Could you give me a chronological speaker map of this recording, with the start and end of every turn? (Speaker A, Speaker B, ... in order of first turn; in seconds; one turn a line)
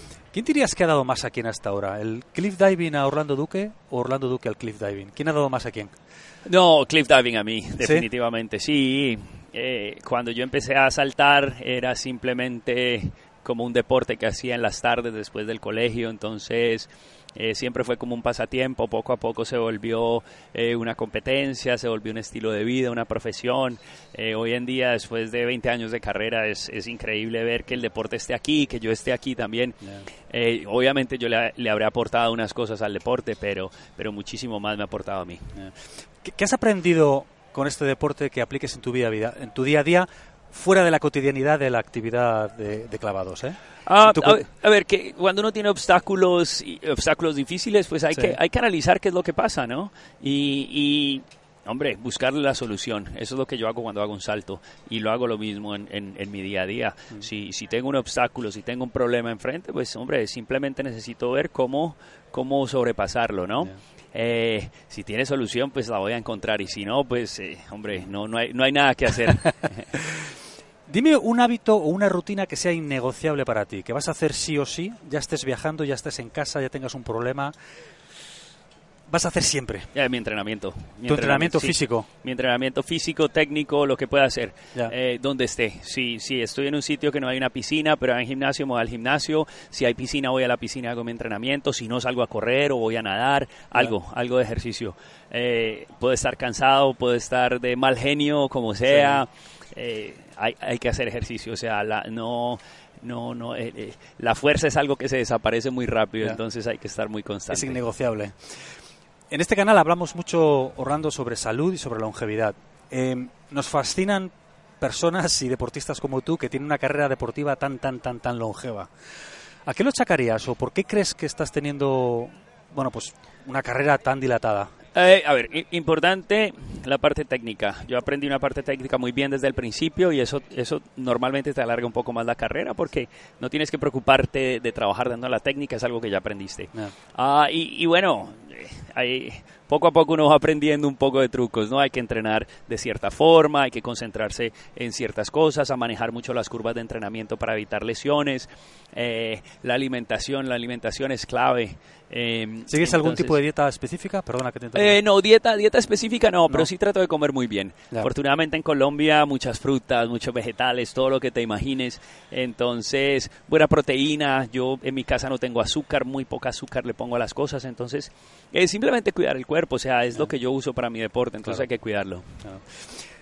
Speaker A: 0.3-5.9
Speaker B: 6.4-35.5
Speaker A: 7.8-8.1
Speaker A: 35.5-44.4
Speaker B: 43.8-69.9
Speaker A: 48.1-48.4
Speaker A: 70.9-77.5
Speaker A: 79.1-79.9
Speaker B: 79.9-107.8
Speaker A: 81.0-82.1
Speaker A: 98.8-99.2
Speaker A: 107.5-108.3
Speaker A: 109.3-118.9
Speaker A: 119.7-124.7
Speaker B: 124.9-153.4
Speaker A: 152.7-155.0
Speaker B: 154.7-172.3
Speaker A: 172.4-173.0